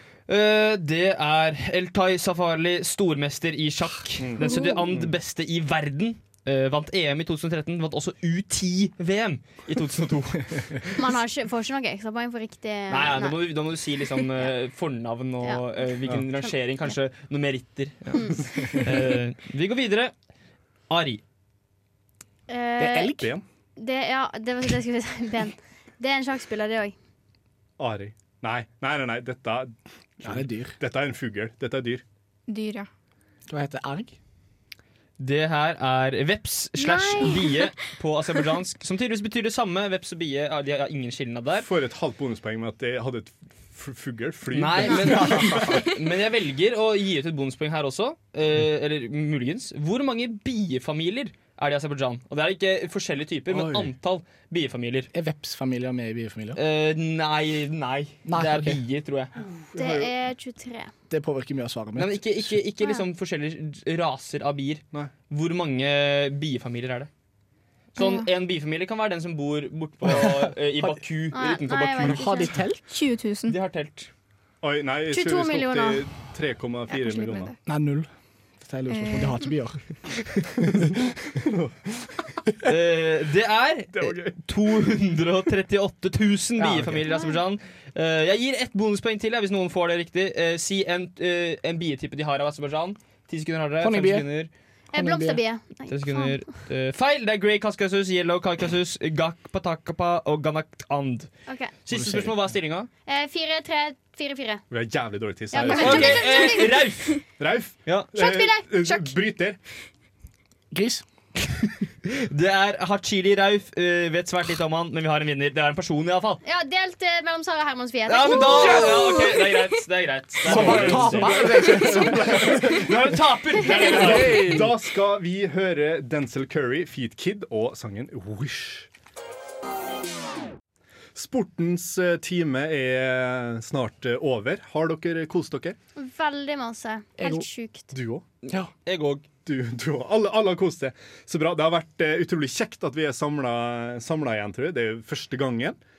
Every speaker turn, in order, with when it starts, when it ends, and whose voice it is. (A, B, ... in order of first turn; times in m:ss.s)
0:00.3-0:10.9 A
0:04.2-0:05.2 B
0:04.4-0:04.8 C
0:11.0-0:13.4 D
0:12.9-0:20.1 A
0:18.1-0:18.5 D
0:20.9-0:21.2 A
0:22.5-0:23.3 D
0:22.8-0:23.3 E
0:23.2-0:23.4 B
0:23.8-0:27.0 D
0:27.8-0:32.0 B
0:30.2-0:30.8 E
0:32.5-0:32.9 C
0:33.5-0:34.2 E
0:35.2-0:41.7 A
0:36.8-0:37.6 D
0:41.6-0:45.9 B
0:44.5-0:55.1 A
0:53.5-0:53.9 B
0:55.1-0:56.6 E
0:56.6-0:59.3 A
0:58.3-0:58.8 E
0:59.4-1:00.1 B
0:59.8-1:00.9 D
1:01.1-1:02.6 E
1:02.0-1:07.1 A
1:08.0-1:12.2 A
1:10.1-1:11.0 E
1:11.3-1:12.6 D
1:12.0-1:12.8 E
1:12.9-1:13.6 C
1:13.5-1:14.1 A
1:14.6-1:17.5 B
1:15.1-1:16.0 D
1:16.9-1:17.6 C
1:17.7-1:18.1 E
1:18.6-1:19.8 E
1:18.9-1:19.5 C
1:20.6-1:21.0 E
1:21.4-1:22.1 B
1:22.6-1:34.5 A
1:23.9-1:24.4 B
1:26.6-1:27.1 E
1:27.1-1:27.4 D
1:33.8-1:34.3 E
1:34.9-1:35.4 E
1:34.9-1:36.4 D
1:35.9-1:41.3 A
1:41.9-1:42.9 A
1:41.9-1:42.4 E
1:43.1-1:44.6 D
1:44.7-1:46.4 B
1:45.5-1:46.9 D
1:45.7-1:47.2 A
1:47.4-1:49.6 B
1:47.9-1:48.1 A
1:48.1-1:49.1 D
1:50.7-1:51.0 E
1:51.6-1:56.4 A
1:56.4-1:59.6 D
1:58.1-2:04.7 A
1:58.4-1:59.1 E
2:00.4-2:02.6 E
2:00.5-2:08.9 B
2:03.8-2:04.7 E
2:11.2-2:15.8 B
2:16.0-2:17.9 D
2:17.2-2:17.5 E
2:17.9-2:18.2 B
2:18.4-2:19.2 A
2:19.4-2:25.8 B